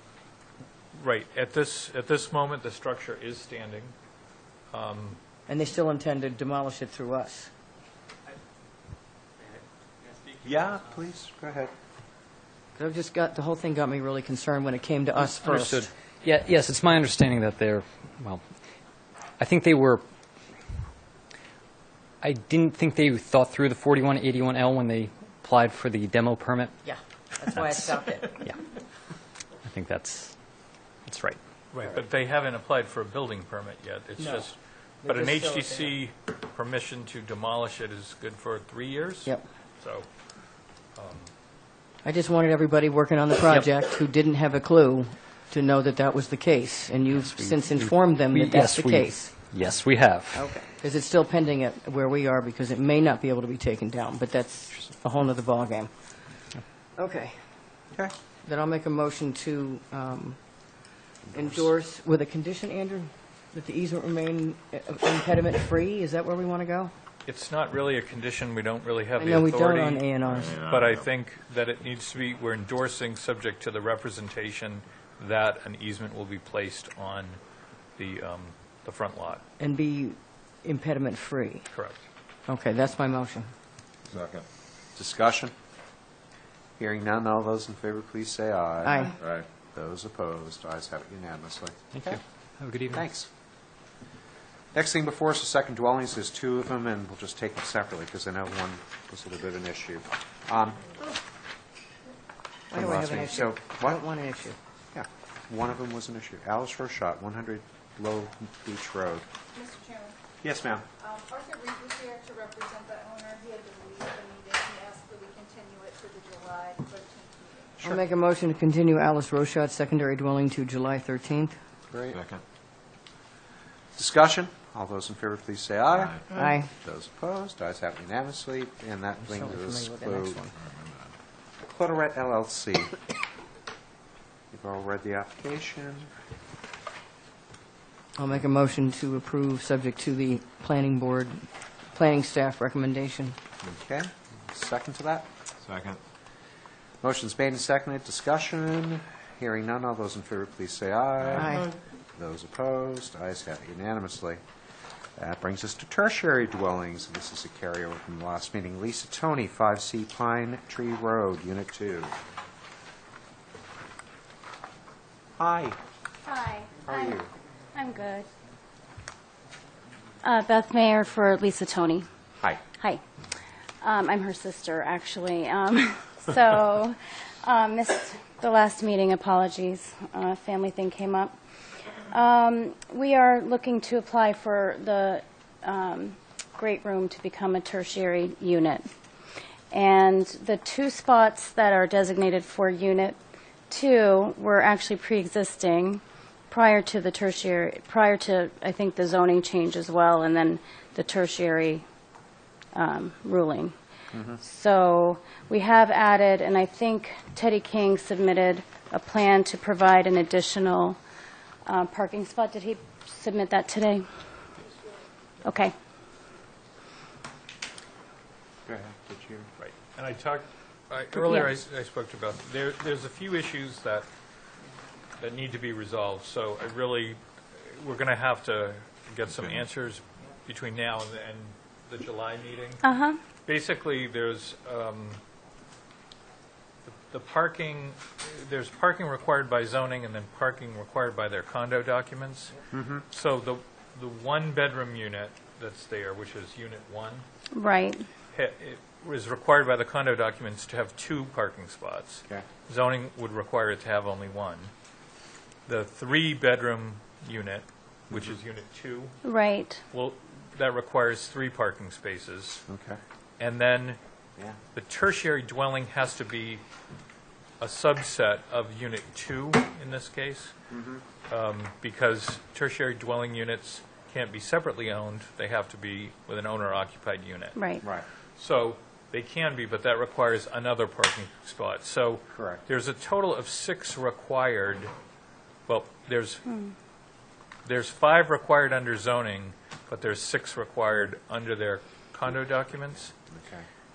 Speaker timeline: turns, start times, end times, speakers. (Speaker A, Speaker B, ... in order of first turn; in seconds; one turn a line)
Speaker A: 0.9-3.9
Speaker A: 4.7-5.2
Speaker B: 5.5-7.5
Speaker C: 10.4-11.7
Speaker B: 12.8-15.9
Speaker D: 15.2-18.5
Speaker D: 19.4-20.0
Speaker D: 22.2-26.8
Speaker B: 26.8-28.5
Speaker D: 27.5-28.6
Speaker D: 29.6-30.4
Speaker D: 31.1-31.4
Speaker A: 31.7-40.1
Speaker B: 34.2-34.5
Speaker B: 35.0-36.0
Speaker A: 41.0-41.3
Speaker B: 42.0-49.3
Speaker D: 47.2-50.5
Speaker B: 50.3-55.9
Speaker B: 57.0-57.4
Speaker B: 58.4-66.9
Speaker C: 61.3-61.7
Speaker A: 67.3-77.4
Speaker B: 69.2-70.6
Speaker E: 70.3-71.1
Speaker A: 78.0-79.4
Speaker B: 79.6-81.7
Speaker A: 81.7-82.0
Speaker B: 82.5-83.5
Speaker E: 84.1-84.5
Speaker C: 85.0-85.5
Speaker C: 86.8-92.2
Speaker B: 88.8-89.2
Speaker E: 89.2-89.5
Speaker D: 91.9-93.0
Speaker C: 92.9-93.3
Speaker C: 94.7-100.9
Speaker B: 102.7-104.6
Speaker C: 102.7-104.0
Speaker C: 104.9-109.3
Speaker F: 109.6-110.1
Speaker C: 110.4-110.9
Speaker F: 111.1-117.5
Speaker B: 117.8-121.6
Speaker C: 121.9-122.2
Speaker E: 122.1-122.4
Speaker C: 124.0-130.5
Speaker E: 126.0-126.2
Speaker B: 126.3-126.7
Speaker B: 129.2-130.5
Speaker E: 130.7-131.1
Speaker C: 131.6-133.0
Speaker C: 134.5-136.1
Speaker B: 138.2-143.4
Speaker C: 143.6-145.3
Speaker E: 145.6-146.0
Speaker C: 147.0-154.4
Speaker B: 151.3-151.7
Speaker C: 155.2-162.2
Speaker C: 165.4-165.8
Speaker G: 166.2-167.2
Speaker C: 166.9-167.3
Speaker G: 167.7-168.3
Speaker G: 170.2-172.1
Speaker G: 173.8-181.3
Speaker G: 182.1-188.8
Speaker G: 189.7-193.2
Speaker G: 193.7-201.8
Speaker G: 202.7-203.8
Speaker C: 204.1-204.4
Speaker G: 204.4-211.0
Speaker G: 211.7-214.1
Speaker G: 215.4-215.7
Speaker C: 218.7-219.5
Speaker A: 219.6-224.1
Speaker G: 221.2-221.4
Speaker A: 225.2-232.8
Speaker G: 232.8-233.2
Speaker A: 233.5-235.2
Speaker A: 236.9-242.5
Speaker C: 242.7-243.0
Speaker A: 243.1-247.2
Speaker G: 247.5-248.1
Speaker A: 248.3-254.7
Speaker A: 255.7-259.2
Speaker G: 259.2-259.8
Speaker A: 259.9-262.6
Speaker C: 262.7-263.0
Speaker A: 263.4-264.0
Speaker A: 264.8-266.6
Speaker A: 267.6-270.5
Speaker C: 270.7-271.0
Speaker A: 271.3-277.6
Speaker G: 277.6-277.8
Speaker A: 278.4-284.9
Speaker C: 282.3-282.6
Speaker A: 285.7-286.4
Speaker G: 286.5-286.7
Speaker A: 287.6-293.1
Speaker C: 293.3-293.6